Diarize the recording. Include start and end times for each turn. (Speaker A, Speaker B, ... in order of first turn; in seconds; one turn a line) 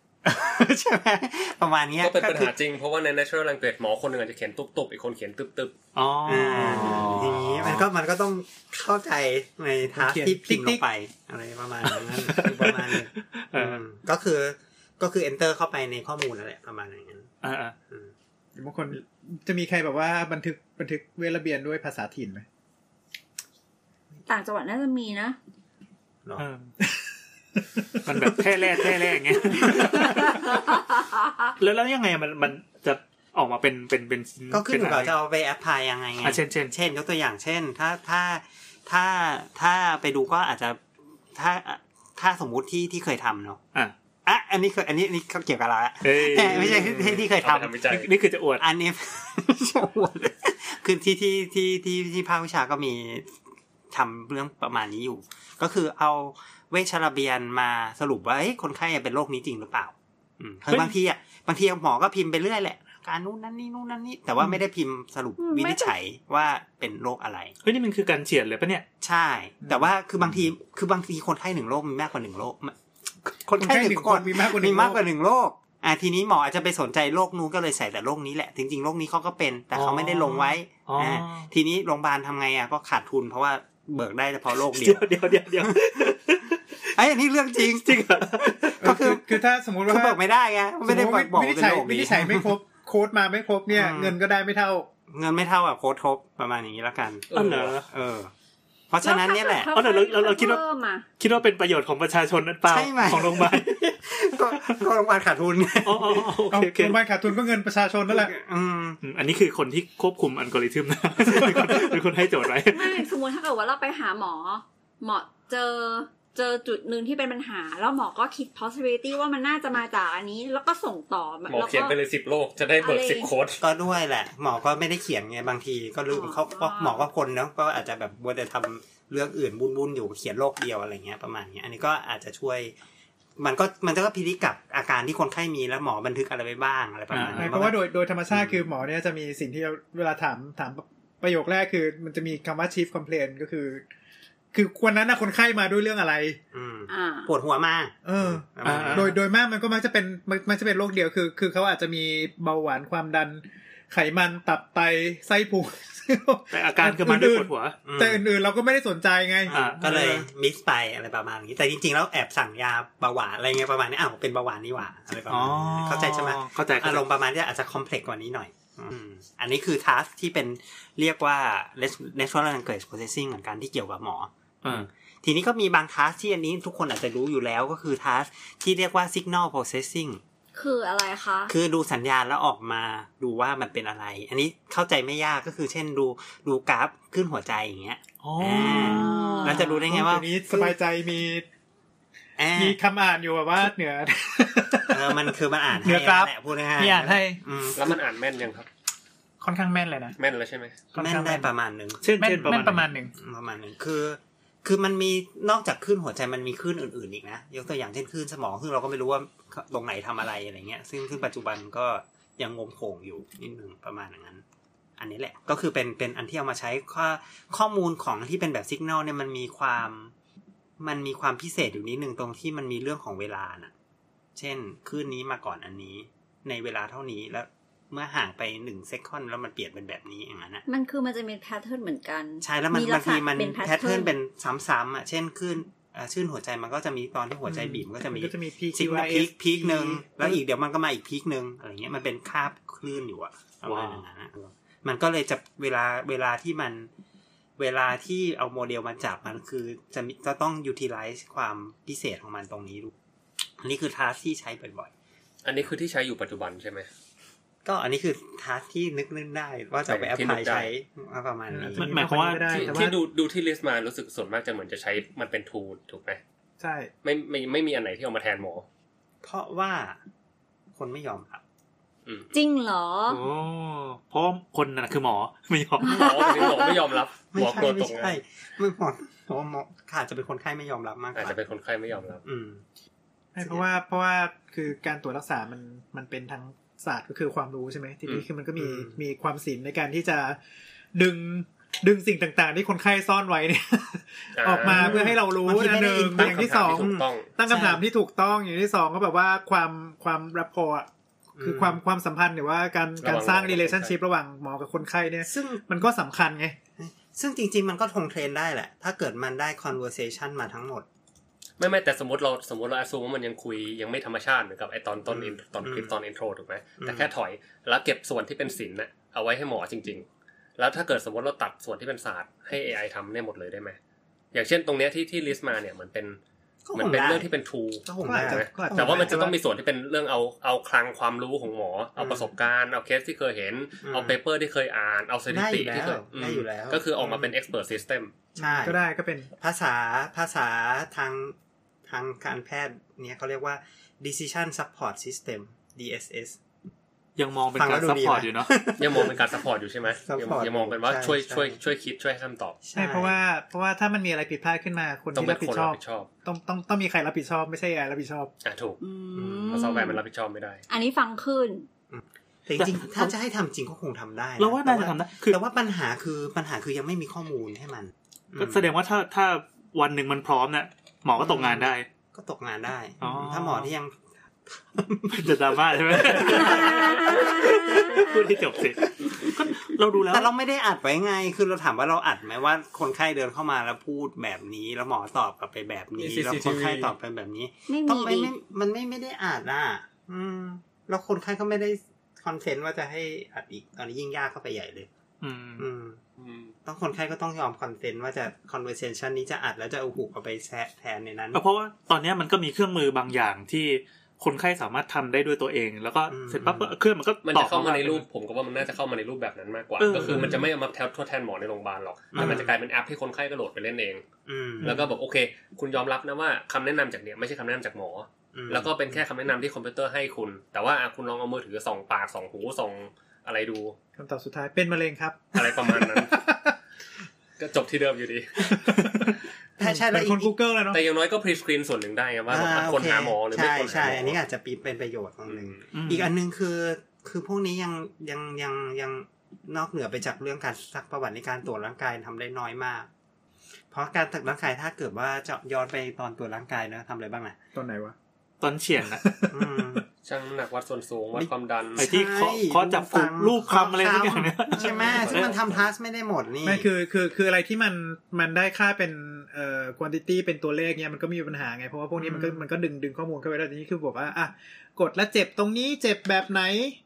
Speaker A: 0.2-2.5
Speaker B: 2.0-5.8
Speaker C: 6.0-7.8
Speaker A: 6.2-17.3
Speaker D: 9.9-10.8
Speaker C: 11.9-13.8
Speaker C: 17.4-17.8
Speaker D: 18.6-22.4
Speaker E: 24.3-25.4
Speaker C: 26.4-26.7
Speaker C: 28.1-30.7
Speaker D: 28.1-28.4
Speaker E: 30.0-31.5
Speaker C: 31.6-35.1
Speaker A: 34.5-40.8
Speaker C: 36.2-36.7
Speaker A: 41.3-43.6
Speaker A: 44.3-47.8
Speaker C: 46.0-47.0
Speaker B: 46.5-48.1
Speaker C: 47.9-48.6
Speaker A: 48.6-53.3
Speaker A: 53.9-67.5
Speaker E: 65.4-65.9
Speaker C: 67.6-68.9
Speaker A: 69.0-85.1
Speaker D: 73.5-75.0
Speaker C: 79.7-81.5
Speaker C: 84.7-86.8
Speaker A: 85.6-86.0
Speaker A: 86.9-92.6
Speaker C: 87.6-88.9
Speaker D: 88.8-90.2
Speaker D: 90.8-94.9
Speaker A: 93.7-94.2
Speaker A: 95.1-98.3
Speaker B: 97.3-97.7
Speaker C: 97.3-97.9
Speaker A: 98.9-99.7
Speaker E: 99.0-101.1
Speaker C: 99.7-100.6
Speaker C: 101.2-103.8
Speaker A: 102.7-106.4
Speaker C: 105.8-107.0
Speaker D: 106.5-108.3
Speaker A: 108.1-109.0
Speaker C: 109.0-113.1
Speaker E: 112.7-122.0
Speaker B: 121.5-123.6
Speaker E: 122.8-123.3
Speaker A: 123.6-132.8
Speaker E: 126.1-127.1
Speaker A: 133.4-138.7
Speaker C: 137.1-137.6
Speaker D: 137.3-143.8
Speaker D: 144.5-146.4
Speaker A: 146.5-149.2
Speaker E: 146.9-147.3
Speaker D: 148.1-159.6
Speaker C: 148.6-149.2
Speaker C: 156.5-157.8
Speaker A: 157.8-158.2
Speaker A: 159.5-180.2
Speaker C: 159.5-160.2
Speaker C: 165.3-167.1
Speaker C: 174.6-174.9
Speaker E: 180.6-181.5
Speaker A: 181.5-190.8
Speaker C: 188.2-189.6
Speaker E: 188.6-189.7
Speaker D: 189.4-191.5
Speaker A: 192.4-192.8
Speaker D: 192.6-195.3
Speaker A: 194.9-198.0
Speaker D: 195.8-197.4
Speaker B: 197.8-198.7
Speaker D: 199.4-200.2
Speaker B: 200.2-200.8
Speaker D: 200.9-201.5
Speaker A: 200.9-214.4
Speaker C: 202.0-202.9
Speaker D: 202.2-203.1
Speaker A: 215.0-220.1
Speaker A: 220.8-223.7
Speaker A: 224.4-230.6
Speaker E: 230.7-234.1
Speaker A: 232.4-246.9
Speaker D: 237.5-240.4
Speaker C: 243.7-244.0
Speaker A: 247.6-252.9
Speaker A: 253.6-254.9
Speaker B: 255.4-256.9
Speaker A: 257.6-261.9
Speaker B: 259.9-260.7
Speaker D: 261.5-263.0
Speaker C: 261.8-262.9
Speaker B: 262.5-266.2
Speaker D: 266.6-266.9
Speaker B: 267.0-268.6
Speaker A: 269.2-270.0
Speaker A: 270.7-271.4
Speaker B: 272.1-272.3
Speaker E: 272.3-273.2
Speaker C: 273.1-276.0
Speaker E: 275.8-276.7
Speaker B: 275.9-278.2
Speaker A: 276.0-276.8
Speaker A: 277.3-281.4
Speaker B: 281.1-282.2
Speaker A: 282.2-282.6
Speaker D: 283.3-290.4
Speaker A: 283.4-283.7
Speaker A: 288.6-289.0
Speaker D: 290.9-300.9
Speaker B: 294.4-295.1
Speaker A: 294.6-297.8
Speaker B: 296.2-297.3
Speaker A: 301.4-301.8
Speaker D: 301.4-306.6
Speaker B: 303.0-303.9
Speaker A: 305.3-305.6
Speaker A: 306.8-310.9
Speaker B: 311.6-320.1
Speaker A: 315.1-315.9
Speaker A: 316.8-317.1
Speaker B: 320.6-323.8
Speaker B: 324.3-326.2
Speaker A: 326.6-327.3
Speaker B: 326.7-338.1
Speaker A: 327.9-329.2
Speaker D: 328.0-329.4
Speaker A: 332.0-332.3
Speaker A: 333.8-334.2
Speaker A: 335.3-337.4
Speaker A: 338.4-338.8
Speaker D: 338.4-339.3
Speaker A: 339.4-346.4
Speaker C: 347.2-348.5
Speaker A: 347.6-349.4
Speaker B: 348.8-352.6
Speaker A: 350.0-351.6
Speaker A: 352.6-353.2
Speaker D: 352.8-358.3
Speaker B: 355.1-356.1
Speaker B: 358.4-358.8
Speaker E: 358.8-360.0
Speaker A: 359.2-359.7
Speaker B: 359.5-360.6
Speaker E: 360.7-361.7
Speaker A: 361.9-368.7
Speaker C: 362.6-363.1
Speaker C: 364.4-365.4
Speaker C: 368.4-371.9
Speaker A: 371.2-374.0
Speaker C: 373.0-373.7
Speaker A: 374.5-379.3
Speaker C: 375.1-380.3
Speaker E: 376.4-378.1
Speaker A: 380.0-394.9
Speaker B: 386.0-386.9
Speaker E: 387.7-388.3
Speaker C: 395.2-395.7
Speaker A: 395.6-396.0
Speaker B: 396.2-396.5
Speaker A: 396.6-401.4
Speaker C: 401.3-408.0
Speaker A: 406.1-406.7
Speaker B: 407.2-414.1
Speaker C: 409.8-410.4
Speaker A: 409.9-410.4
Speaker A: 412.1-412.6
Speaker A: 414.3-414.9
Speaker B: 414.6-423.8
Speaker A: 418.3-418.8
Speaker D: 424.0-426.6
Speaker B: 425.4-426.2
Speaker B: 427.4-428.7
Speaker D: 428.5-430.9
Speaker A: 429.6-430.3
Speaker B: 430.7-434.2
Speaker A: 432.3-442.9
Speaker B: 435.3-435.6
Speaker C: 435.7-436.1
Speaker A: 443.7-447.4
Speaker D: 447.6-447.9
Speaker C: 448.4-449.0
Speaker D: 448.8-449.8
Speaker A: 449.3-449.9
Speaker B: 450.0-451.9
Speaker A: 451.2-456.7
Speaker C: 451.8-455.3
Speaker B: 454.6-455.6
Speaker D: 454.8-455.1
Speaker D: 456.4-466.8
Speaker A: 462.0-462.5